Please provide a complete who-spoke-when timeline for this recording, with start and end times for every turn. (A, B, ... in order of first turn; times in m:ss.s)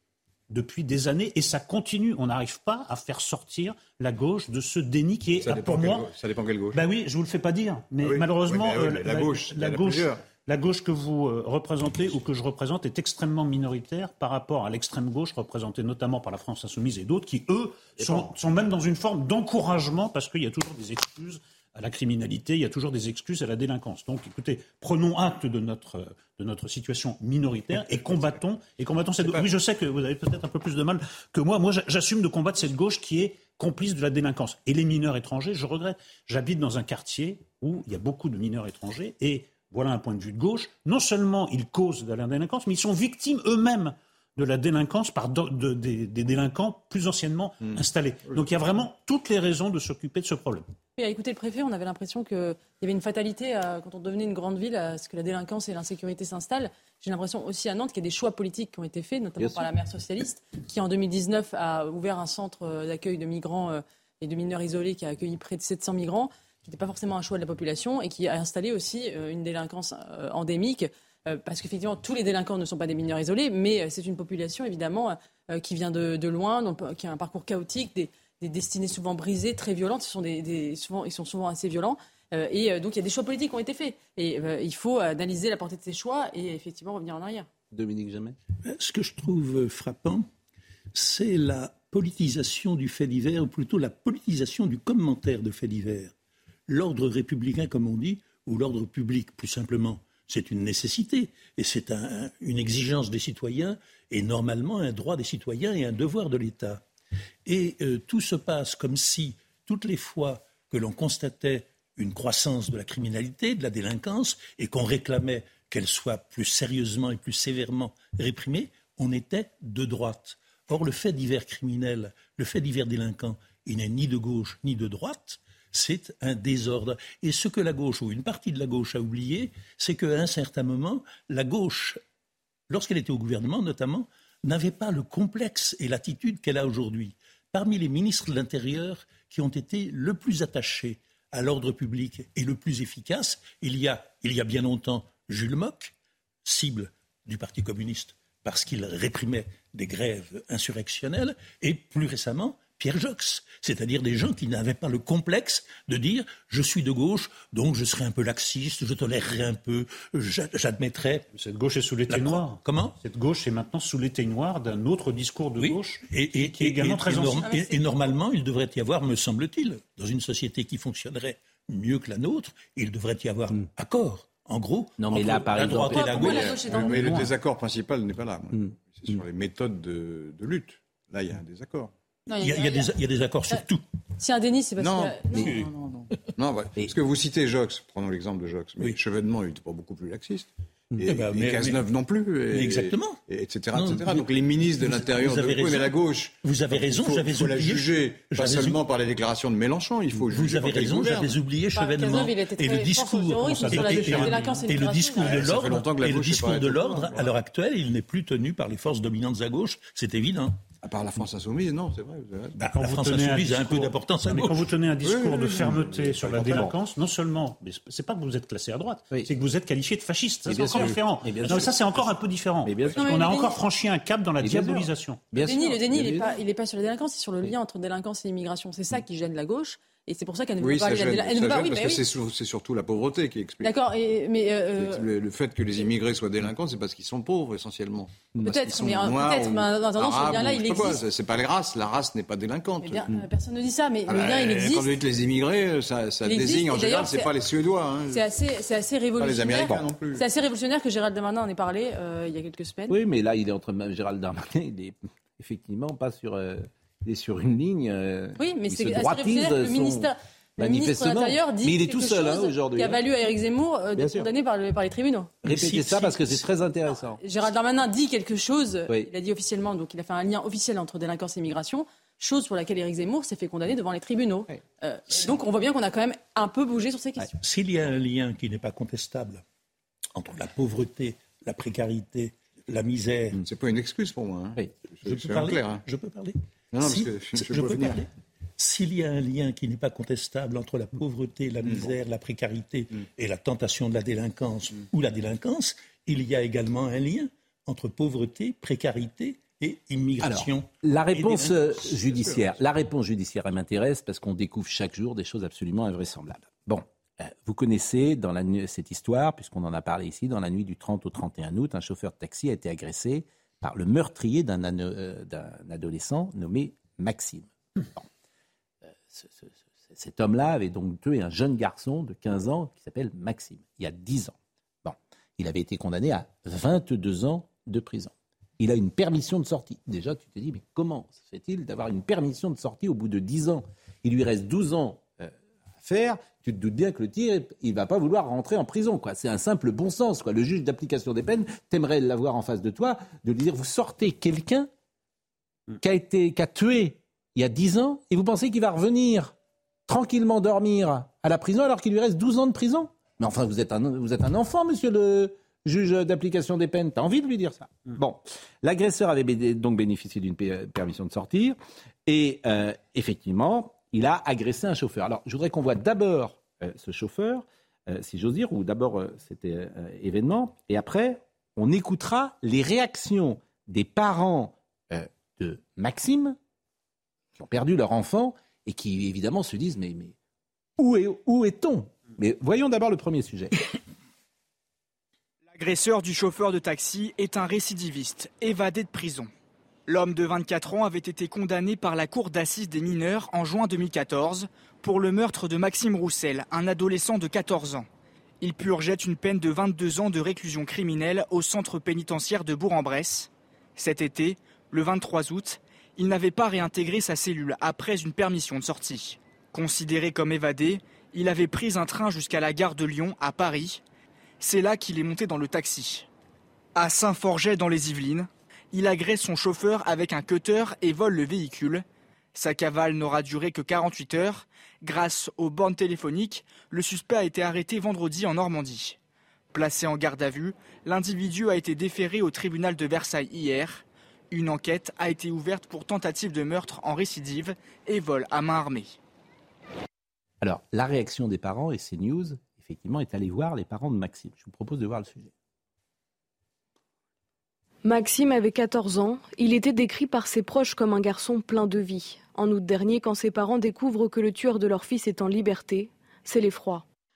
0:00.5-0:06.1 A
0:05.3-0:06.8 B
0:06.7-0:50.6 A
0:08.0-0:10.2 B
0:18.0-0:18.3 C
0:29.2-0:29.5 B
0:47.6-0:48.4 B
0:51.0-1:27.5 D
0:59.4-0:59.7 C
1:27.7-1:28.4 C
1:28.6-1:30.3 E
1:30.9-1:36.1 E
1:36.7-1:46.8 E
1:47.4-2:12.0 E
2:12.7-2:25.9 E
2:26.4-2:41.2 E
2:41.3-2:47.4 A
2:42.1-2:43.0 E
2:45.6-2:57.3 E
2:47.4-2:48.0 D
2:55.0-2:56.6 C
2:55.9-2:57.2 D
2:56.6-3:01.9 B
3:02.3-3:02.9 D
3:02.3-3:03.8 E
3:04.2-3:05.6 D
3:04.8-3:21.4 B
3:11.0-3:11.8 E
3:12.5-3:13.2 E
3:13.7-3:18.8 E
3:20.2-3:30.6 E
3:21.7-3:25.4 D
3:23.7-3:24.6 A
3:25.2-3:27.3 B
3:30.8-3:32.6 B
3:32.6-3:34.6 E
3:32.8-3:45.2 A
3:35.0-3:36.8 B
3:40.5-3:41.9 C
3:40.6-3:41.7 B
3:42.6-3:43.0 C
3:43.0-3:43.5 D
3:44.4-3:46.3 C
3:45.4-3:52.0 D
3:50.6-3:53.7 B
3:53.6-3:55.0 D
3:54.8-4:03.2 B
3:58.4-4:01.0 D
4:02.8-4:04.9 D
4:04.1-4:08.3 B
4:06.2-4:07.3 D
4:08.1-4:13.0 D
4:09.2-4:10.2 B
4:12.9-4:23.0 C
4:18.4-4:25.3 D
4:24.0-4:24.3 C
4:25.4-4:26.5 E
4:25.4-4:27.2 C
4:27.2-4:37.3 D
4:37.4-4:39.4 E
4:40.2-4:43.4 E
4:43.4-4:45.8 B
4:45.0-5:02.4 E
4:46.7-4:48.0 B
4:51.6-4:51.9 B
5:00.2-5:18.1 C
5:18.9-5:44.7 C
5:45.8-5:49.3 C
5:49.9-6:16.4 C
6:17.4-6:20.2 C
6:20.8-6:23.5 C
6:25.5-6:29.3 F
6:29.9-6:37.9 F
6:38.4-6:53.8 F
6:54.4-6:56.1 F
6:56.7-7:09.0 F
7:09.5-7:19.0 F
7:20.4-7:25.3 C
7:27.8-7:36.8 G